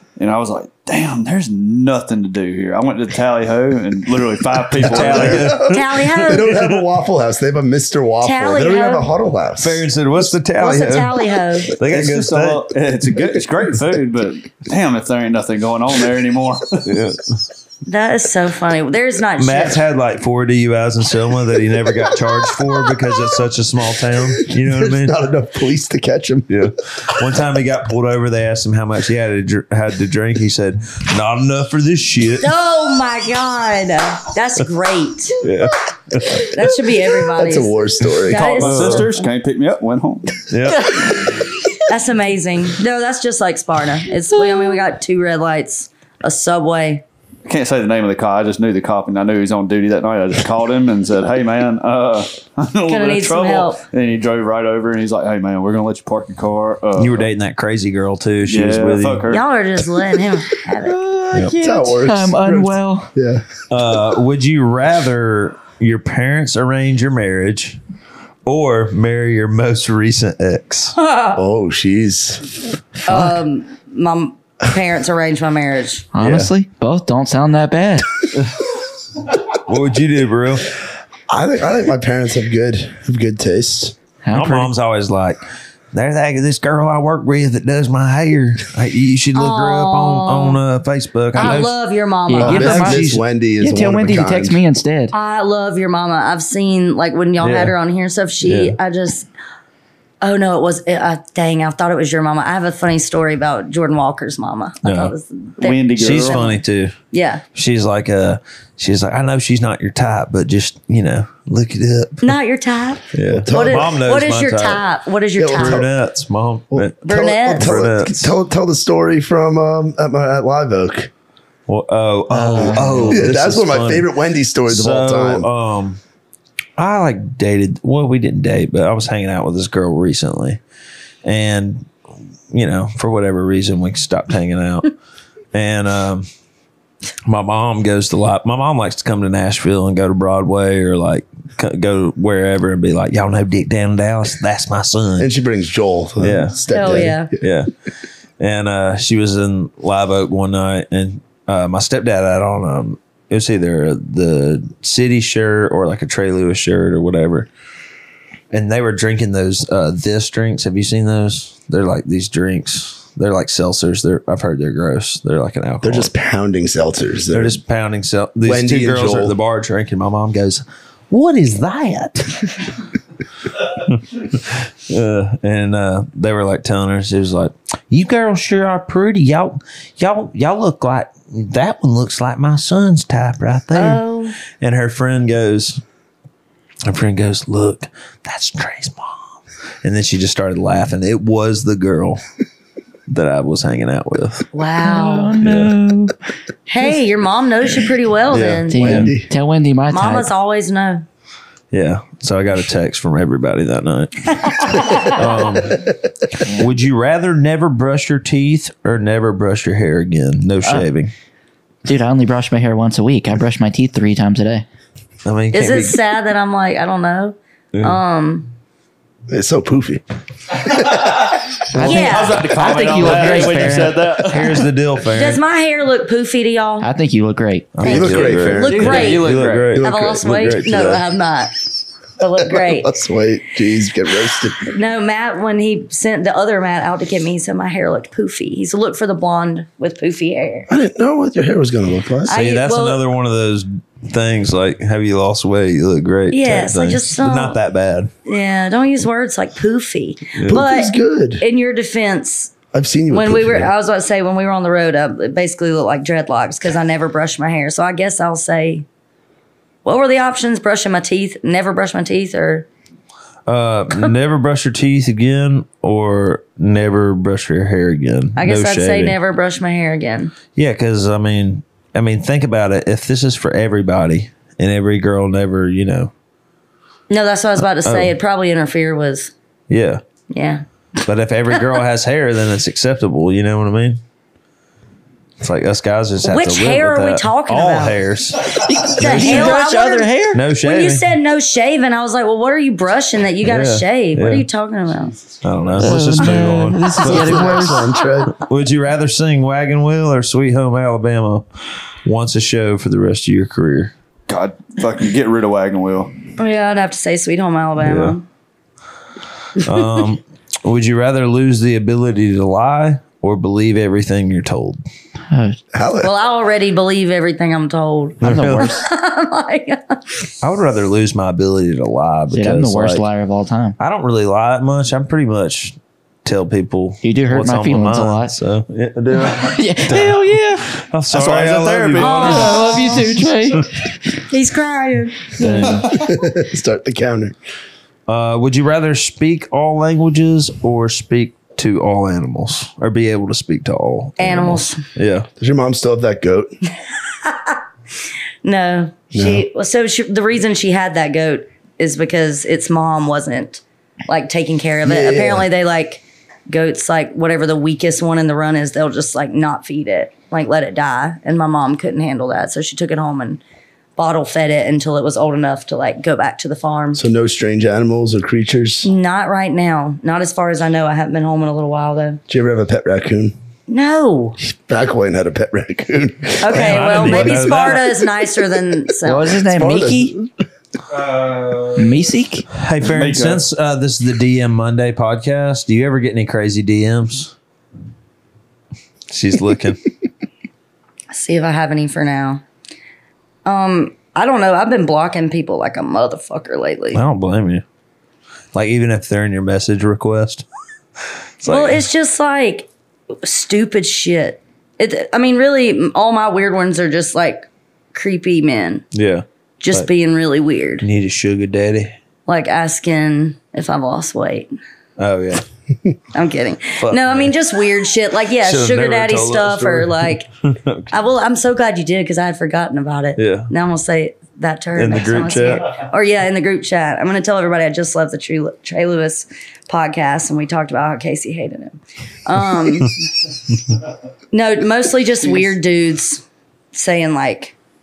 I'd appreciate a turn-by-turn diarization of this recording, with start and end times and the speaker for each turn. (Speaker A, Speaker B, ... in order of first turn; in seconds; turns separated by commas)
Speaker A: 0.2-5.6, Speaker B: 4.8-6.8, Speaker C: 4.8-9.8, Speaker D: 5.5-6.5, Speaker D: 8.2-9.1, Speaker B: 9.6-11.2, Speaker D: 10.6-11.7, Speaker B: 11.7-12.7, Speaker A: 11.8-16.9, Speaker B: 16.8-17.3, Speaker D: 17.9-19.8, Speaker B: 19.4-25.1, Speaker C: 24.4-26.7, Speaker B: 26.5-32.5, Speaker D: 32.4-35.4, Speaker B: 35.4-36.5, Speaker D: 36.3-39.3, Speaker C: 37.2-38.5, Speaker A: 38.3-40.4, Speaker B: 38.5-39.1, Speaker B: 40.5-41.0, Speaker D: 41.9-47.0, Speaker E: 44.4-44.6, Speaker A: 47.5-57.3, Speaker D: 52.9-53.8, Speaker B: 57.0-59.2, Speaker A: 58.4-59.4, Speaker D: 59.3-61.0, Speaker E: 60.8-63.1, Speaker C: 61.5-63.5, Speaker B: 63.7-67.8, Speaker B: 68.4-71.0, Speaker D: 71.0-71.4, Speaker C: 71.3-72.5, Speaker D: 73.0-76.1, Speaker E: 73.1-73.4, Speaker E: 76.1-78.2, Speaker B: 76.2-76.5, Speaker B: 79.5-80.7, Speaker C: 81.3-84.0, Speaker E: 84.2-84.7, Speaker B: 84.3-85.4, Speaker B: 85.9-91.7, Speaker D: 89.3-90.6, Speaker D: 91.3-92.8, Speaker E: 92.3-93.0, Speaker C: 92.4-94.6, Speaker B: 92.4-93.2, Speaker E: 93.6-95.1, Speaker D: 95.1-99.3, Speaker B: 97.4-97.7, Speaker B: 98.4-98.8, Speaker D: 100.2-106.6, Speaker B: 104.8-105.1, Speaker A: 105.6-106.6, Speaker B: 106.0-106.9, Speaker D: 107.1-107.4, Speaker B: 107.5-112.3, Speaker D: 112.2-115.8, Speaker B: 113.1-114.8, Speaker C: 113.2-113.9, Speaker C: 115.4-115.9, Speaker B: 115.5-117.0, Speaker C: 116.7-121.1, Speaker D: 117.0-117.7, Speaker B: 117.5-118.3, Speaker B: 121.7-124.1, Speaker E: 122.3-123.3, Speaker C: 122.8-125.5, Speaker B: 124.7-126.0, Speaker B: 126.8-130.6, Speaker B: 131.2-131.9, Speaker B: 132.5-134.9, Speaker B: 135.5-136.3, Speaker B: 137.2-145.3, Speaker C: 145.2-147.3, Speaker B: 146.2-147.7, Speaker D: 146.7-147.3, Speaker B: 148.4-157.5, Speaker B: 158.5-166.1, Speaker C: 165.8-167.6, Speaker B: 167.3-172.3, Speaker C: 168.4-169.3, Speaker B: 173.6-184.0, Speaker D: 183.7-184.3, Speaker B: 184.6-185.8, Speaker B: 186.8-189.2, Speaker B: 189.8-192.2, Speaker B: 193.1-194.5, Speaker D: 194.5-195.4, Speaker E: 194.8-196.1, Speaker B: 195.4-195.7, Speaker D: 196.7-199.0, Speaker B: 198.3-199.1, Speaker E: 198.7-200.3, Speaker C: 198.8-199.3, Speaker D: 199.9-201.0, Speaker B: 201.7-211.1, Speaker D: 204.3-205.2, Speaker E: 211.8-214.6, Speaker B: 215.2-216.0, Speaker D: 215.5-218.5, Speaker C: 219.3-221.4, Speaker E: 221.7-224.1, Speaker D: 221.8-222.5, Speaker A: 221.8-224.6, Speaker B: 222.7-225.4, Speaker D: 225.1-226.9, Speaker E: 226.8-227.7, Speaker B: 227.7-231.0, Speaker D: 227.8-231.5, Speaker C: 227.8-228.8, Speaker A: 228.5-229.8, Speaker C: 229.7-230.2, Speaker D: 232.2-232.9, Speaker C: 232.4-234.7, Speaker D: 234.6-240.7, Speaker C: 240.7-242.3, Speaker D: 242.3-243.0, Speaker B: 242.3-248.1, Speaker D: 246.3-247.6, Speaker D: 248.2-252.5, Speaker B: 250.3-250.6, Speaker C: 250.5-251.4, Speaker C: 252.7-253.7, Speaker D: 253.1-258.8, Speaker D: 259.8-262.7, Speaker B: 263.5-269.1, Speaker D: 268.4-270.3, Speaker B: 270.5-276.1, Speaker D: 277.1-279.3, Speaker B: 277.8-278.1, Speaker B: 279.7-280.0, Speaker D: 280.3-280.6, Speaker B: 281.1-284.0, Speaker B: 285.4-289.5, Speaker D: 286.2-288.0, Speaker E: 288.5-290.4, Speaker D: 288.8-295.1, Speaker B: 290.3-291.0, Speaker B: 293.4-294.4, Speaker B: 295.4-297.8, Speaker E: 295.8-298.0, Speaker C: 296.9-298.3, Speaker B: 298.3-301.4, Speaker B: 302.0-303.9, Speaker A: 304.3-306.1, Speaker D: 306.4-308.2, Speaker B: 307.8-308.1, Speaker B: 309.6-314.8, Speaker D: 309.6-310.0, Speaker E: 315.3-315.6, Speaker C: 315.7-316.1, Speaker D: 316.0-320.0, Speaker B: 318.2-318.7, Speaker E: 318.2-318.8, Speaker B: 320.4-323.1, Speaker E: 322.3-323.8, Speaker B: 323.8-332.6, Speaker E: 327.0-328.3, Speaker E: 329.2-330.7, Speaker A: 331.1-332.8, Speaker D: 332.0-333.2, Speaker E: 332.1-333.9, Speaker D: 334.2-336.1, Speaker B: 335.4-335.9, Speaker E: 335.4-335.8, Speaker C: 335.8-337.4, Speaker B: 338.1-345.3, Speaker D: 344.2-344.8, Speaker C: 345.4-346.5, Speaker D: 347.2-347.6, Speaker D: 348.4-363.4, Speaker C: 349.1-349.4, Speaker C: 354.8-355.4, Speaker D: 364.0-367.0, Speaker C: 366.9-368.9, Speaker D: 368.8-372.2, Speaker C: 372.3-373.3, Speaker D: 373.7-374.4, Speaker C: 374.4-377.5, Speaker D: 376.4-379.4, Speaker B: 376.5-377.8, Speaker E: 379.0-380.1, Speaker C: 379.4-380.3, Speaker B: 380.9-381.9, Speaker E: 381.8-382.4, Speaker B: 382.5-387.3, Speaker A: 382.8-383.4, Speaker B: 389.1-389.8, Speaker D: 391.1-392.4, Speaker D: 393.4-397.0, Speaker B: 396.9-397.6, Speaker B: 398.5-400.4, Speaker B: 401.4-401.8, Speaker D: 401.5-402.7, Speaker D: 403.2-408.8, Speaker B: 408.9-409.9, Speaker D: 409.6-410.8, Speaker B: 410.8-411.9, Speaker D: 412.3-414.5, Speaker B: 415.0-415.4, Speaker D: 416.1-420.3, Speaker B: 416.8-417.3, Speaker B: 418.4-420.9, Speaker D: 420.9-433.1, Speaker B: 423.2-423.5, Speaker B: 424.8-425.7, Speaker D: 434.3-437.5